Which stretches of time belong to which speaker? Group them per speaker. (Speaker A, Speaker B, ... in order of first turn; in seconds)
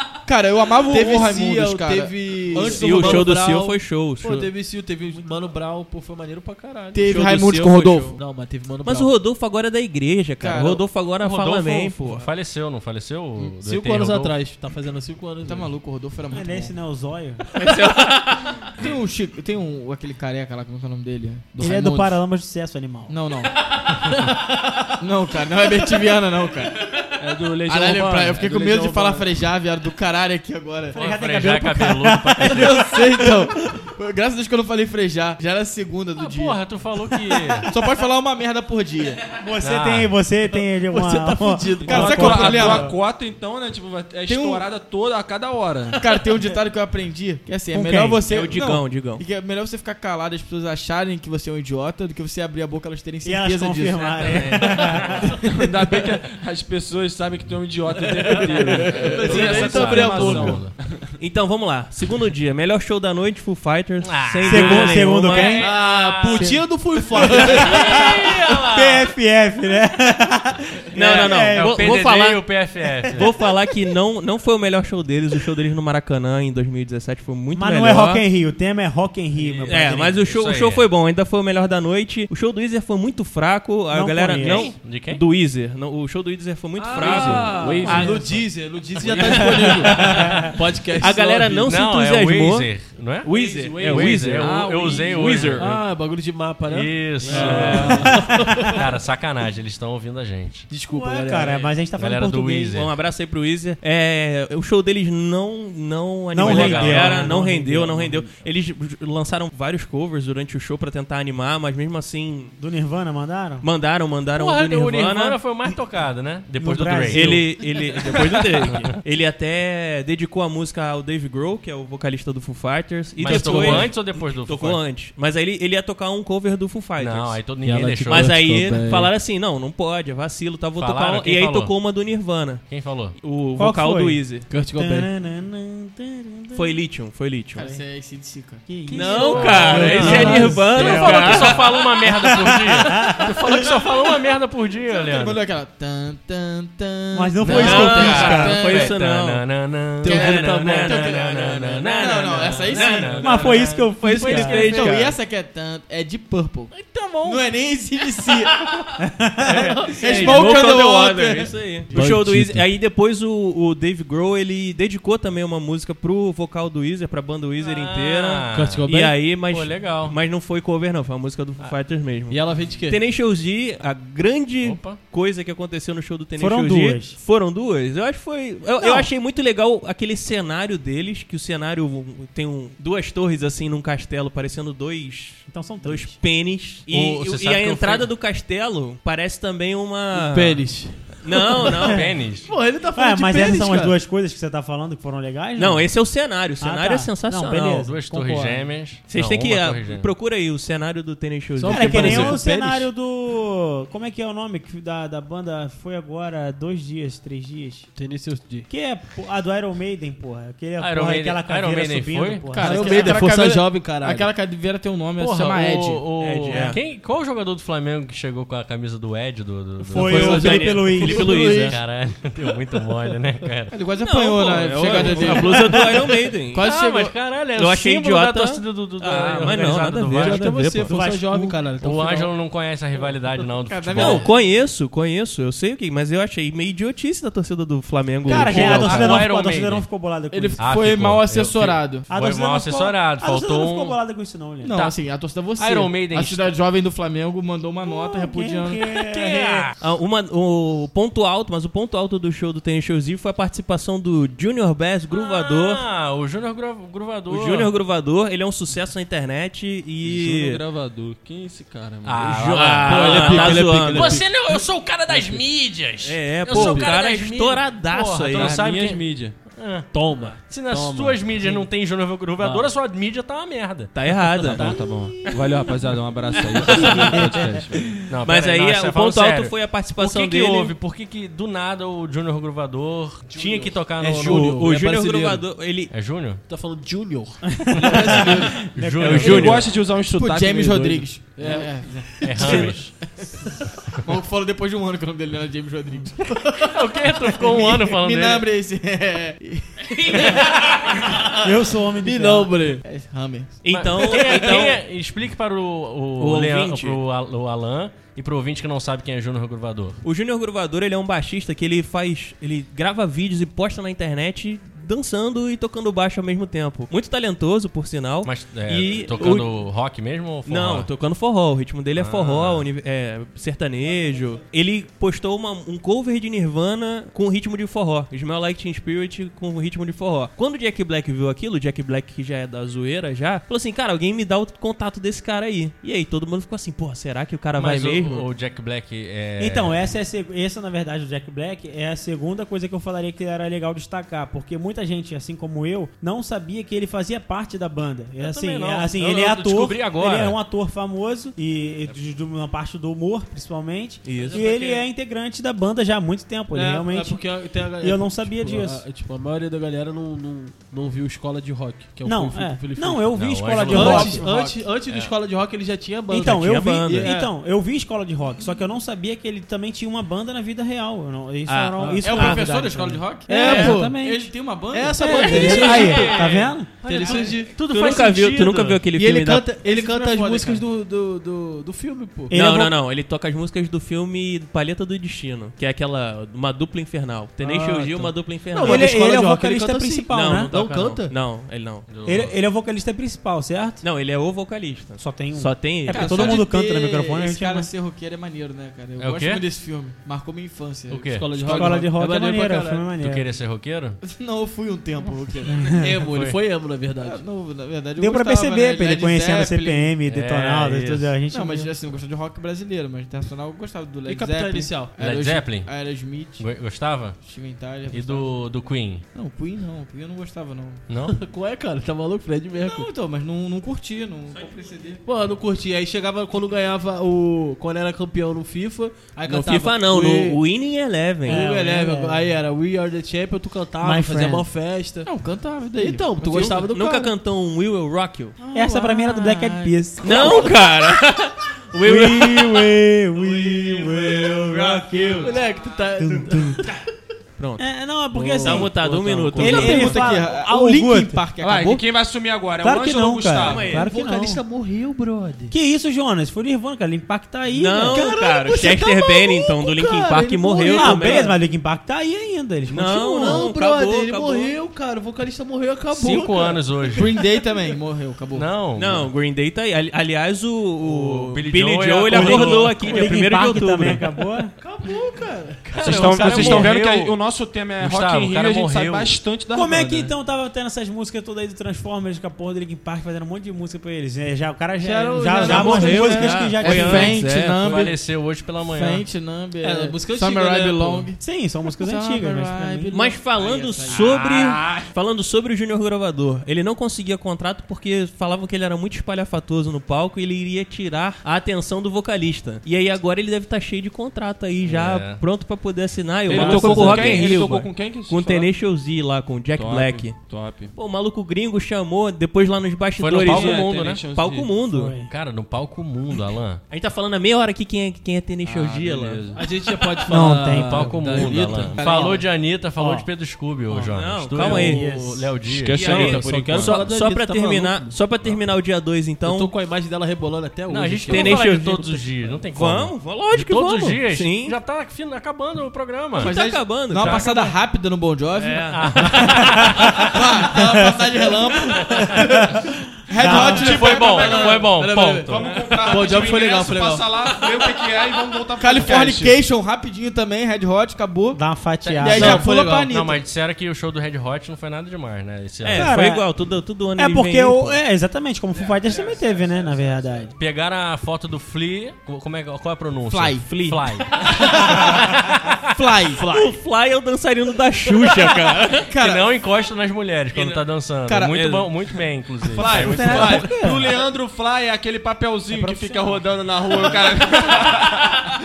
Speaker A: 0.2-3.4, 6.9-8.2, 10.4-10.8, 15.4-16.7, 18.7-22.2, 23.1-31.0, 32.5-36.7, 37.6-39.2, 41.3-43.0, 44.3-44.7, 46.0-55.6, 58.7-60.5, 67.2-68.0, 137.5-138.6, 144.8-149.0, 150.0-153.5, 154.3-156.7, 157.2-158.6, 159.9-161.5, 212.5-216.1, 220.2-221.7, 223.7-225.9, 226.5-227.2, 233.6-234.4, 238.3-238.9, 240.3-242.1, 244.6-248.9, 288.1-288.5, 289.7-293.5, 294.0-301.3, 302.0-304.5, 363.7-364.6, 372.0-376.0, 379.6-380.6, 395.9-401.9, 404.0-405.8, 407.0-409.9, 411.3-416.5, 417.2-418.5, 419.1-420.9, 422.6-425.0, 435.0-436.7, 438.4-440.6, 444.4-445.3, 449.4-451.9, 466.1-468.6, 485.9-491.2, 491.7-494.1, 521.7-522.2, 536.1-539.0, 540.0-546.4, 548.6-551.4, 552.0-553.2, 563.1-563.7, 564.3-565.1, 565.7-566.5, 568.9-569.3, 571.0-571.7, 572.8-573.4
Speaker B: 0.8-9.1, 13.6-15.7, 27.2-29.3, 40.9-42.5, 58.2-60.7, 65.6-68.0, 86.8-91.7, 93.2-98.8, 100.7-101.7, 107.2-108.2, 123.5-123.9, 127.6-129.1, 134.5-135.1, 139.6-140.7, 150.0-150.8, 161.9-162.6, 168.5-169.2, 172.3-173.0, 190.1-191.3, 192.5-193.9, 201.6-202.9, 207.9-208.7, 212.6-214.3, 220.1-221.6, 229.4-232.3, 262.5-264.3, 265.1-265.4, 266.5-266.9, 269.9-271.7, 272.4-272.7, 274.4-275.3, 276.7-277.4, 283.3-285.4, 286.5-288.6, 291.3-292.7, 354.2-354.8, 356.5-363.1, 363.7-367.3, 373.3-374.0, 374.7-376.3, 376.8-377.5, 378.9-382.3, 387.4-391.1, 401.1-402.9, 405.7-407.2, 414.1-414.9, 421.1-422.9, 425.0-430.4, 431.2-435.1, 435.8-437.1, 445.2-446.8, 448.1-450.0, 453.7-455.5, 457.9-461.4, 463.2-467.2, 474.6-476.7, 484.8-486.6, 489.6-491.1, 494.1-494.8, 519.3-522.2, 524.4-525.0, 525.7-528.0, 529.2-531.5, 544.7-545.2, 545.8-547.1, 552.0-552.9
Speaker C: 2.6-4.5, 7.6-8.2, 8.8-12.3, 17.6-18.7, 48.2-49.2, 61.1-65.7, 70.9-78.2, 79.6-88.5, 89.0-95.6, 102.7-112.5, 113.6-115.4, 117.1-134.5, 136.5-137.7, 138.9-141.8, 147.4-155.1, 159.9-192.2, 195.6-197.9, 199.1-202.4, 216.2-216.8, 220.0-221.8, 224.0-226.7, 227.5-230.9, 233.9-239.2, 249.8-255.8, 257.3-260.6, 262.5-264.3, 266.0-268.6, 273.9-274.8, 276.6-277.3, 278.2-280.7, 284.2-285.9, 289.0-289.6, 303.6-304.8, 306.2-307.0, 310.0-319.5, 320.4-338.3, 354.0-354.4, 366.2-367.1, 371.5-372.4, 377.6-379.5, 382.3-389.1, 390.1-391.9, 393.8-396.4, 429.2-431.4, 436.3-438.4, 440.0-442.8, 447.4-447.6, 448.4-450.1, 453.4-453.9, 457.5-461.4, 462.7-464.5, 468.7-474.1, 485.5-487.6, 492.9-515.0, 516.7-519.2, 523.7-525.0, 525.7-529.5, 531.1-534.6, 536.2-537.5, 538.4-539.4, 555.6-557.8, 563.5-563.8, 566.2-568.9
Speaker D: 11.2-14.4, 30.9-33.0, 36.1-37.7, 39.6-40.1, 54.2-55.2, 58.4-60.7, 64.0-66.6, 67.2-69.1, 71.5-73.3, 79.7-80.9, 84.4-85.2, 91.6-95.8, 96.7-100.7, 101.9-102.9, 106.4-107.3, 114.3-117.5, 118.6-118.9, 123.2-124.8, 127.0-128.5, 130.8-131.7, 132.7-133.2, 138.9-145.4, 147.4-154.9, 156.8-157.4, 159.4-160.7, 167.6-168.8, 169.4-170.2, 174.6-175.0, 186.9-188.1, 191.7-192.5, 197.8-200.1, 210.8-212.5, 215.2-223.7, 224.9-225.9, 226.5-230.9, 231.8-234.3, 238.3-239.9, 240.6-244.0, 245.6-246.5, 248.9-249.7, 255.1-257.7, 262.0-274.1, 276.7-277.2, 277.9-284.7, 285.9-286.4, 287.8-289.7, 292.2-293.1, 296.6-298.4, 300.1-300.7, 303.7-310.0, 318.2-320.9, 321.9-322.6, 337.6-339.9, 348.2-350.4, 363.1-364.2, 375.2-378.8, 391.9-392.3, 399.0-399.4, 400.9-401.3, 403.0-404.0, 406.0-406.4, 410.1-411.1, 415.0-417.2, 417.9-419.0, 420.9-421.2, 465.9-467.3, 468.3-469.1, 470.8-473.0, 475.8-477.2, 477.8-479.2, 486.9-489.0, 504.6-505.2, 506.8-507.3, 513.0-514.0, 515.1-516.6, 520.5-526.2, 530.7-536.4, 536.9-537.3, 538.7-540.1, 543.2-545.8, 551.8-555.9, 560.3-565.6, 569.0-573.5
Speaker E: 16.3-17.4, 21.6-23.1, 30.9-33.6, 39.3-42.9, 47.7-48.2, 53.2-55.1, 64.4-65.7, 67.5-72.0, 77.5-80.2, 83.9-84.7, 87.8-88.2, 97.7-98.0, 100.9-102.8, 106.3-107.8, 112.6-113.7, 116.6-117.5, 123.3-123.8, 133.6-136.7, 137.6-137.8, 138.7-143.5, 147.1-148.6, 153.2-154.8, 159.0-159.7, 176.4-177.2, 178.8-179.1, 185.5-186.2, 192.9-196.0, 196.6-198.7, 201.7-207.9, 208.7-213.2, 219.8-221.5, 225.5-225.8, 230.9-231.6, 238.3-240.6, 242.1-244.8, 247.8-249.7, 287.6-289.5, 301.3-302.5, 339.4-358.8, 362.0-364.2, 366.1-374.3, 375.0-376.7, 382.3-382.7, 388.6-390.5, 392.0-393.8, 395.0-397.7, 401.5-403.2, 405.5-405.8, 408.0-411.7, 431.3-432.2, 433.8-434.4, 438.5-440.5, 441.8-445.4, 446.0-446.7, 447.6-448.7, 449.4-451.2, 452.6-454.4, 455.5-458.1, 460.7-463.5, 472.1-474.5, 479.5-487.1, 491.2-493.0, 514.7-515.1, 520.1-521.3, 522.8-523.0, 524.6-525.3, 540.5-540.9, 542.1-542.6, 543.1-543.7, 551.3-552.5, 555.7-556.3, 557.0-560.3, 572.8-573.9, 575.5-576.2
Speaker F: 41.8-46.1, 55.4-61.0, 87.0-88.1, 260.0-263.2, 268.3-269.4, 274.5-278.1, 289.0-291.1, 451.4-453.7, 475.8-480.1, 485.4-487.3, 506.2-508.5, 509.5-510.7, 513.2-514.5, 518.4-519.5, 525.5-526.8, 543.2-549.4, 572.4-578.3